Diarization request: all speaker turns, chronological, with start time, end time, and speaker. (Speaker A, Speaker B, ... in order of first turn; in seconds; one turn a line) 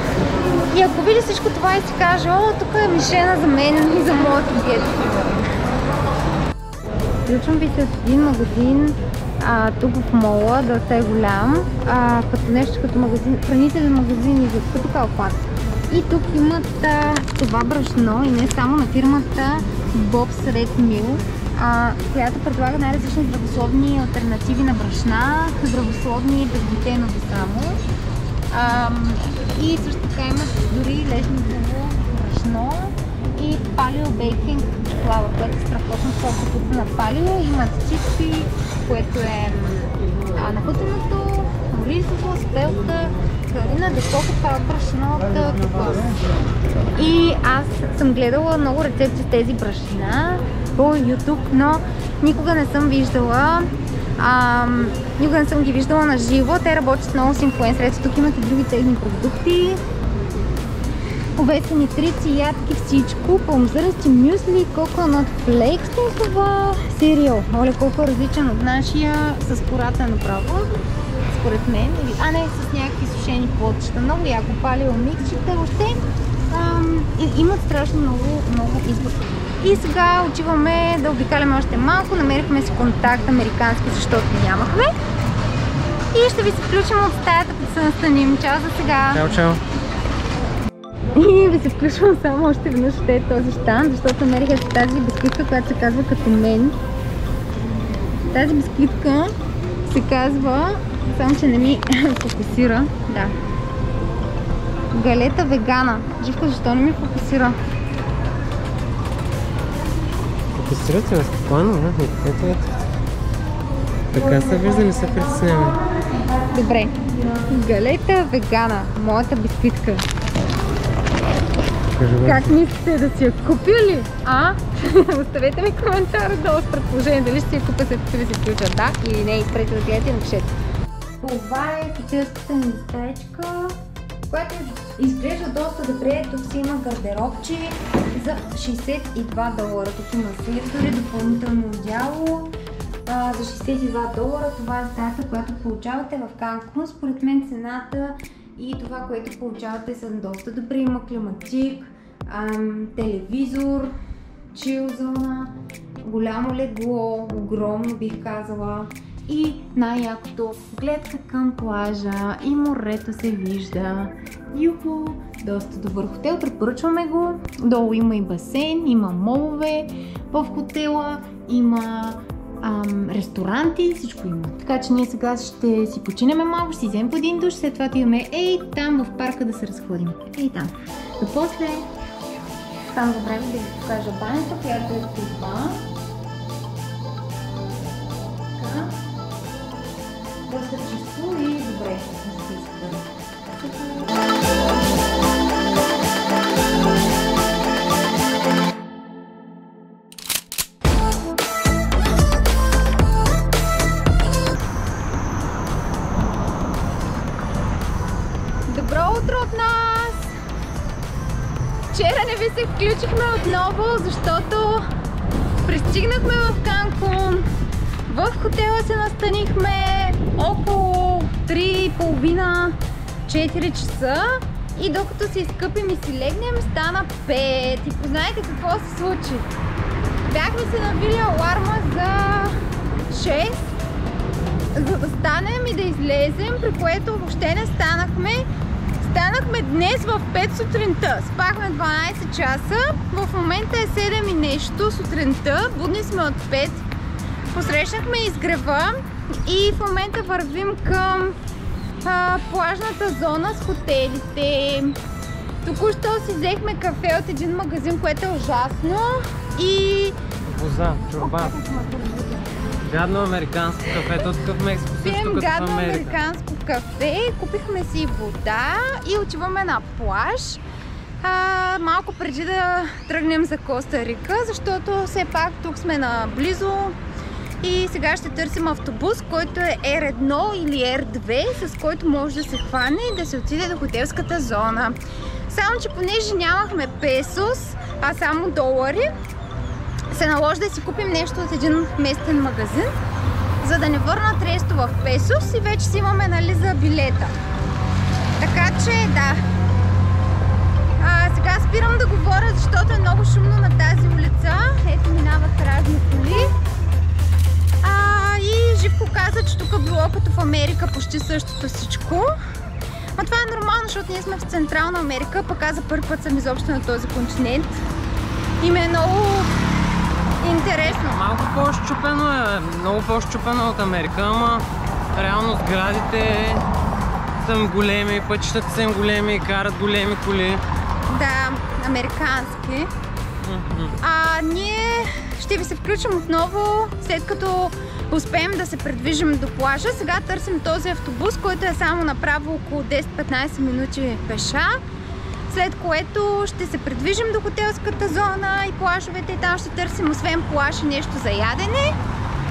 Speaker A: 0.7-5.3
Speaker A: 7.2-27.8
Speaker A: 28.5-46.1
Speaker A: 46.9-59.8
Speaker A: 61.3-70.7
Speaker A: 71.3-84.9
Speaker A: 86.1-89.2
Speaker B: 89.1-89.6
Speaker A: 91.1-96.8
Speaker A: 98.3-99.3
Speaker A: 99.8-103.3
Speaker A: 104.9-107.6
Speaker B: 110.5-112.8
Speaker B: 114.1-115.8
Speaker A: 116.5-120.0
Speaker B: 121.9-122.6
Speaker A: 122.2-130.5
Speaker A: 131.2-133.8
Speaker A: 134.3-142.5
Speaker A: 143.1-153.9
Speaker A: 154.5-181.9
Speaker A: 182.9-185.8
Speaker A: 188.5-188.9
Speaker A: 190.4-193.1
Speaker A: 208.7-210.3
Speaker A: 211.9-214.8
Speaker A: 215.6-217.5
Speaker A: 218.1-229.5
Speaker A: 230.3-232.6
Speaker A: 233.1-233.7
Speaker A: 234.7-238.5
Speaker A: 239.0-246.8
Speaker A: 247.5-248.9
Speaker A: 249.4-251.4
Speaker A: 252.0-255.0
Speaker A: 255.6-260.2
Speaker B: 260.4-261.5
Speaker A: 261.2-262.4
Speaker B: 262.8-266.2
Speaker A: 265.0-270.6
Speaker A: 271.2-277.0
Speaker A: 277.6-289.2
Speaker A: 290.1-292.9
Speaker A: 293.6-297.3
Speaker A: 298.4-299.4
Speaker A: 301.0-306.5
Speaker A: 307.8-312.3
Speaker A: 313.1-317.8
Speaker A: 318.6-319.5
Speaker A: 320.4-321.2
Speaker B: 320.8-326.6
Speaker B: 327.4-330.6
Speaker A: 331.1-332.9
Speaker B: 333.4-333.9
Speaker A: 334.0-344.7
Speaker A: 345.5-352.0